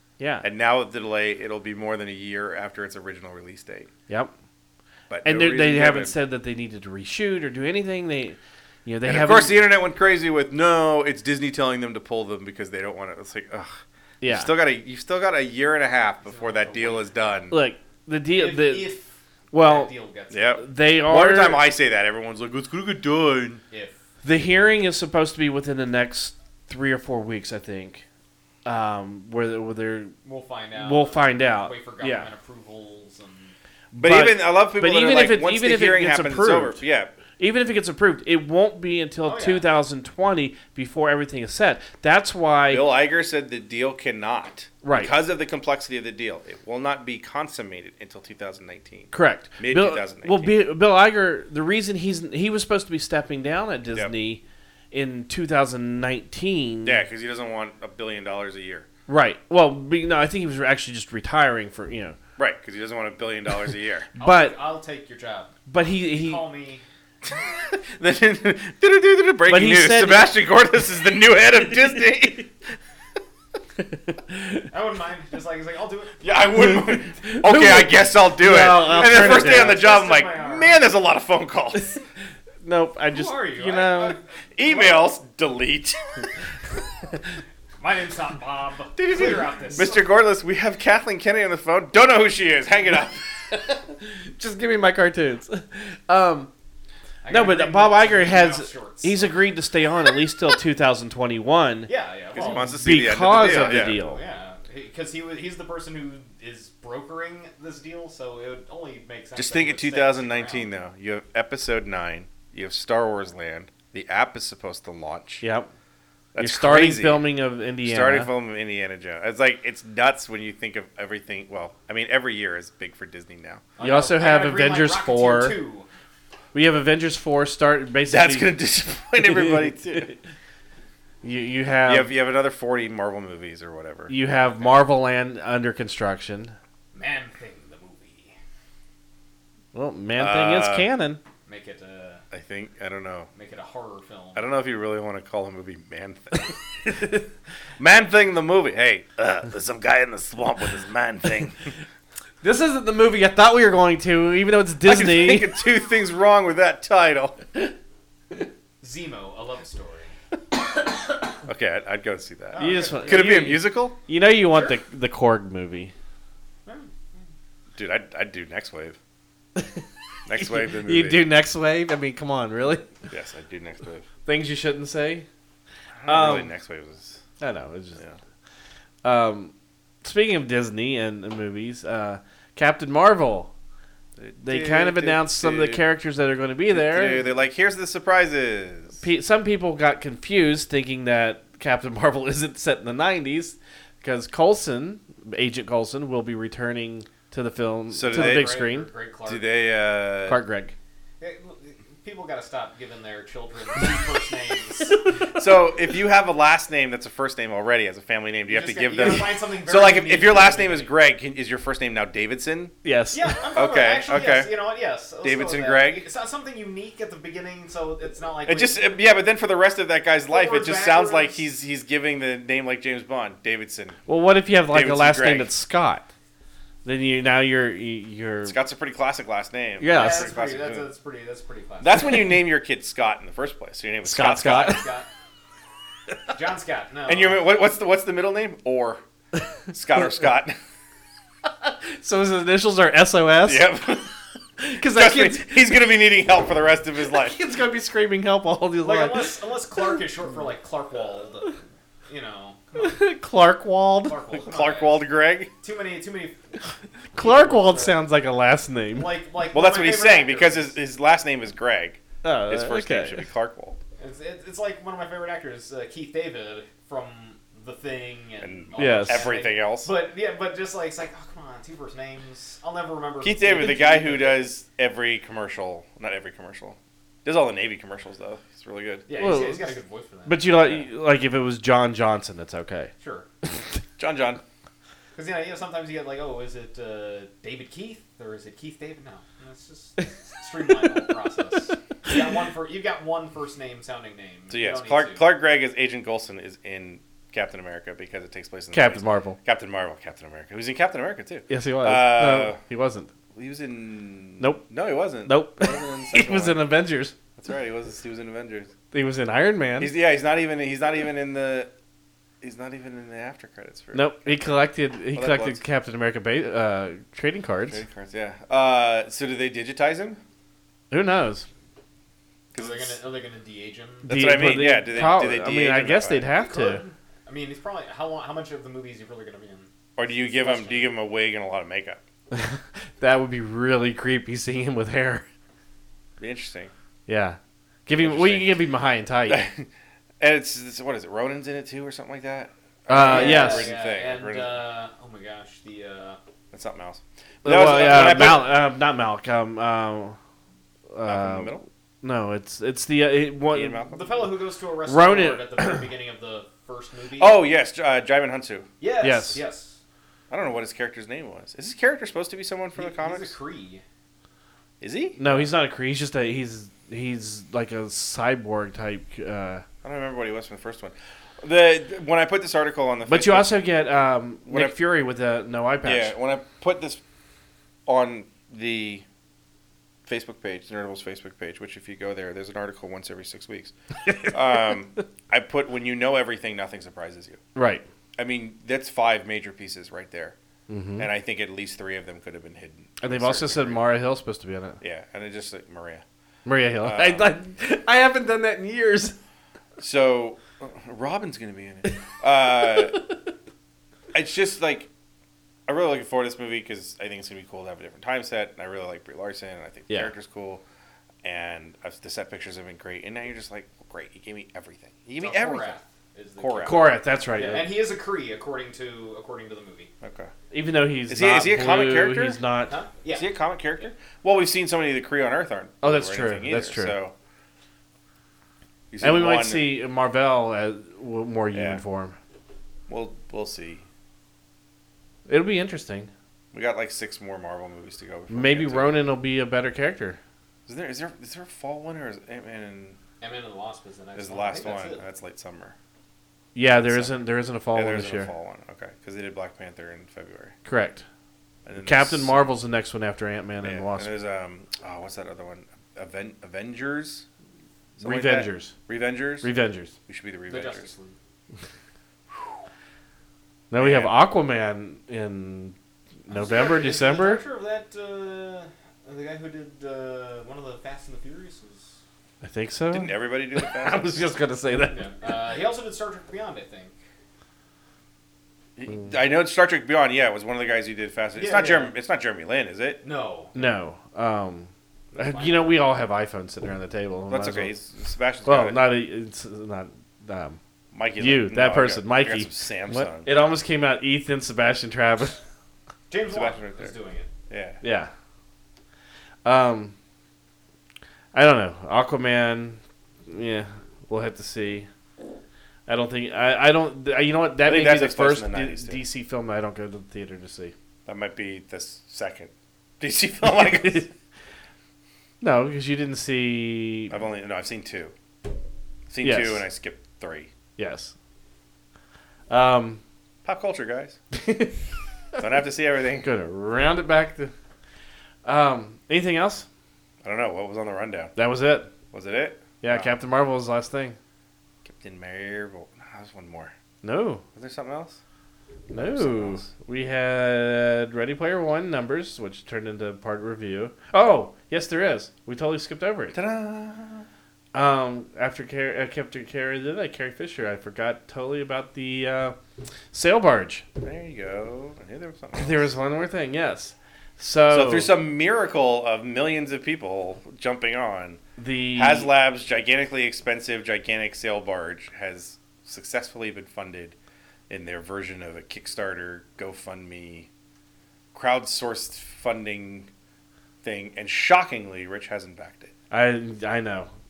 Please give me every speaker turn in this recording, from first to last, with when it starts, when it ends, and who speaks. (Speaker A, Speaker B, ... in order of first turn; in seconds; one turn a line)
Speaker A: 0.2-0.5
Speaker B: 0.4-3.9
Speaker B: 5.1-6.2
Speaker A: 5.2-9.7
Speaker B: 9.1-17.6
Speaker A: 14.2-14.5
Speaker C: 16.2-17.4
Speaker A: 17.5-18.9
Speaker C: 18.3-20.6
Speaker A: 19.5-19.9
Speaker B: 20.3-23.6
Speaker A: 20.6-21.7
Speaker C: 23.7-24.0
Speaker A: 24.2-28.1
Speaker A: 28.6-30.1
Speaker C: 30.2-33.5
Speaker A: 30.8-32.3
Speaker A: 33.9-36.8
Speaker B: 34.0-37.1
Speaker A: 37.4-42.9
Speaker C: 39.3-39.7
Speaker B: 42.7-50.6
Speaker A: 44.8-45.1
Speaker A: 49.1-54.4
Speaker A: 54.9-57.0
Speaker B: 56.9-58.9
Speaker A: 59.1-62.2
Speaker B: 62.4-64.1
Speaker A: 64.2-64.6
Speaker C: 64.2-66.8
Speaker A: 65.7-66.4
Speaker B: 67.3-72.5
Speaker A: 69.5-70.3
Speaker A: 73.9-74.7
Speaker C: 74.7-76.3
Speaker B: 76.2-81.9
Speaker A: 76.6-79.8
Speaker C: 78.8-80.9
Speaker A: 81.8-82.0
Speaker A: 82.6-84.2
Speaker C: 83.1-85.1
Speaker B: 84.6-86.2
Speaker C: 87.8-90.1
Speaker B: 89.0-93.4
Speaker A: 93.5-96.5
Speaker C: 97.2-99.4
Speaker A: 97.3-101.9
Speaker C: 101.9-110.7
Speaker B: 102.3-104.0
Speaker A: 102.4-104.2
Speaker B: 109.3-115.4
Speaker A: 115.4-115.7
Speaker B: 116.3-123.7
Speaker A: 116.4-118.3
Speaker C: 123.8-125.9
Speaker A: 123.8-125.6
Speaker A: 126.5-128.5
Speaker B: 128.1-130.2
Speaker A: 131.2-132.1
Speaker B: 131.9-134.1
Speaker A: 134.1-136.6
Speaker C: 136.9-138.3
Speaker A: 139.7-141.2
Speaker B: 140.2-140.9
Speaker C: 141.5-142.2
Speaker B: 142.3-143.3
Speaker C: 143.3-144.5
Speaker B: 144.3-147.3
Speaker B: 147.8-151.7
Speaker A: 152.4-155.5
Speaker B: 154.8-157.7
Speaker C: 158.8-160.1
Speaker B: 161.4-164.0
Speaker C: 162.5-163.5
Speaker A: 162.6-165.9
Speaker C: 166.7-167.2
Speaker B: 167.8-169.0
Speaker A: 169.6-172.9
Speaker B: 170.3-171.3
Speaker B: 173.1-174.1
Speaker A: 174.2-175.3
Speaker B: 176.0-177.2
Speaker A: 176.1-176.5
Speaker A: 177.4-178.0
Speaker A: 179.0-183.5
Speaker B: 184.2-185.8
Speaker A: 184.4-187.3
Speaker B: 186.7-189.0
Speaker A: 189.0-198.9
Speaker B: 197.9-198.6
Speaker C: 198.1-199.5
Speaker B: 199.3-200.4
Speaker A: 200.3-200.8
Speaker C: 201.2-205.2
Speaker B: 205.3-212.8
Speaker C: 208.5-210.9
Speaker A: 212.8-213.4
Speaker C: 213.1-218.9
Speaker B: 213.5-214.5
Speaker B: 215.2-216.1
Speaker B: 218.5-224.0
Speaker C: 220.3-221.4
Speaker A: 224.1-226.1
Speaker B: 224.7-225.5
Speaker A: 226.8-228.6
Speaker B: 228.4-230.9
Speaker A: 229.8-230.3
Speaker C: 229.9-232.2
Speaker B: 231.8-234.8
Speaker A: 234.0-234.9
Speaker C: 234.5-235.1
Speaker C: 236.3-237.4
Speaker B: 237.1-239.0
Speaker B: 239.7-240.6
Speaker A: 241.6-243.8
Speaker B: 243.5-244.2
Speaker A: 244.6-245.7
Speaker B: 244.8-247.4
Speaker A: 247.2-249.3
Speaker C: 248.8-253.0
Speaker A: 252.8-254.2
Speaker C: 254.1-255.1
Speaker B: 254.4-255.5
Speaker C: 255.6-256.6
Speaker C: 257.1-258.0
Speaker A: 257.1-259.1
Speaker C: 258.9-260.8
Speaker B: 259.5-263.8
Speaker A: 262.2-263.3
Speaker C: 264.0-274.5
Speaker B: 268.4-269.9
Speaker A: 268.8-269.3
Speaker B: 273.2-279.1
Speaker C: 279.1-280.8
Speaker A: 279.2-279.8
Speaker A: 280.3-282.9
Speaker C: 283.0-283.3
Speaker B: 284.0-284.4
Speaker C: 285.1-295.3
Speaker B: 294.5-302.6
Speaker A: 298.7-299.4
Speaker A: 301.5-303.1
Speaker B: 303.3-306.6
Speaker A: 304.4-304.7
Speaker A: 305.2-307.1
Speaker B: 307.4-308.7
Speaker A: 308.9-309.9
Speaker B: 309.8-311.7
Speaker B: 312.4-314.5
Speaker A: 313.9-317.8
Speaker B: 315.1-315.6
Speaker B: 317.7-320.2
Speaker A: 320.9-321.5
Speaker B: 322.5-323.0
Speaker C: 322.5-324.2
Speaker B: 324.1-326.3
Speaker A: 324.1-326.8
Speaker C: 324.9-325.4
Speaker C: 326.3-330.9
Speaker B: 330.0-332.0
Speaker A: 332.3-335.2
Speaker B: 336.2-336.7
Speaker A: 337.1-339.5
Speaker B: 338.0-338.6
Speaker B: 339.3-344.6
Speaker A: 342.9-343.7
Speaker C: 342.9-346.2
Speaker B: 346.5-348.6
Speaker A: 347.4-350.2
Speaker A: 350.9-353.9
Speaker B: 351.1-351.7
Speaker B: 353.5-354.2
Speaker C: 353.9-357.4
Speaker A: 354.9-355.8
Speaker B: 357.2-358.7
Speaker C: 358.8-359.8
Speaker A: 359.0-359.4
Speaker B: 360.3-363.4
Speaker C: 362.8-363.8
Speaker B: 364.8-365.2
Speaker A: 365.2-369.6
Speaker B: 369.8-373.5
Speaker A: 373.1-376.1
Speaker B: 374.5-374.8
Speaker B: 375.8-377.0
Speaker B: 377.9-379.1
Speaker B: 380.1-383.7
Speaker A: 384.1-384.4
Speaker B: 384.2-387.4
Speaker A: 387.6-387.8
Speaker B: 388.2-390.4
Speaker A: 390.7-391.1
Speaker B: 391.0-393.9
Speaker A: 393.0-394.8
Speaker B: 394.8-396.1
Speaker A: 396.4-399.1
Speaker B: 396.8-397.4
Speaker B: 399.8-403.0
Speaker B: 404.1-404.9
Speaker B: 405.7-410.6
Speaker B: 411.2-415.8
Speaker C: 415.2-419.9
Speaker B: 416.4-417.6
Speaker A: 416.6-417.7
Speaker B: 420.0-420.3
Speaker A: 420.5-422.8
Speaker B: 421.1-422.4
Speaker C: 422.7-423.3
Speaker B: 423.1-427.1
Speaker A: 425.8-427.0
Speaker B: 428.9-429.7
Speaker A: 429.0-432.2
Speaker B: 431.5-431.8
Speaker B: 432.9-433.9
Speaker A: 435.3-436.1
Speaker B: 436.5-439.0
Speaker A: 438.3-440.2
Speaker B: 440.7-443.0
Speaker C: 443.2-445.0
Speaker B: 444.1-445.8
Speaker A: 446.6-448.3
Speaker B: 446.7-450.6
Speaker A: 450.6-451.1
Speaker B: 451.7-452.4
Speaker A: 451.8-454.1
Speaker B: 453.6-457.3
Speaker B: 458.0-459.5
Speaker A: 458.0-458.7
Speaker A: 459.4-459.9
Speaker B: 460.1-460.9
Speaker C: 460.5-461.2
Speaker A: 463.7-467.4
Speaker B: 463.8-464.1
Speaker C: 466.3-472.0
Speaker A: 472.4-475.1
Speaker B: 472.9-474.1
Speaker C: 474.9-476.9
Speaker B: 478.8-483.0
Speaker C: 481.4-481.9
Speaker C: 483.0-483.6
Speaker A: 483.6-487.7
Speaker C: 485.1-485.8
Speaker B: 487.3-488.9
Speaker A: 488.4-490.6
Speaker B: 490.9-493.3
Speaker A: 491.2-495.4
Speaker C: 496.1-497.3
Speaker B: 496.3-497.0
Speaker B: 497.5-497.8
Speaker A: 497.8-498.1
Speaker A: 499.4-499.9
Speaker A: 501.3-504.9
Speaker A: 505.9-510.7
Speaker B: 507.7-509.0
Speaker B: 511.1-514.1
Speaker A: 513.5-514.0
Speaker A: 515.4-517.2
Speaker B: 517.1-518.1
Speaker B: 519.1-520.5
Speaker A: 519.2-519.7
Speaker A: 520.8-521.1
Speaker A: 522.5-523.0
Speaker B: 523.5-524.2
Speaker A: 524.4-524.8
Speaker B: 525.4-526.3
Speaker A: 526.2-527.5
Speaker A: 528.5-529.7
Speaker B: 530.2-531.3
Speaker A: 531.4-531.9
Speaker B: 532.1-533.1
Speaker A: 532.8-534.2
Speaker B: 534.9-536.7
Speaker A: 537.0-537.4
Speaker B: 537.5-538.2
Speaker B: 538.9-539.7
Speaker A: 538.9-546.4
Speaker B: 546.3-547.3
Speaker A: 547.7-552.6
Speaker A: 553.1-553.9
Speaker B: 554.0-555.9
Speaker A: 555.5-558.1
Speaker B: 557.7-561.4
Speaker A: 561.6-562.3
Speaker B: 561.9-567.2
Speaker B: 567.7-570.5
Speaker B: 571.3-573.1
Speaker B: 573.8-575.9
Speaker A: 576.1-577.1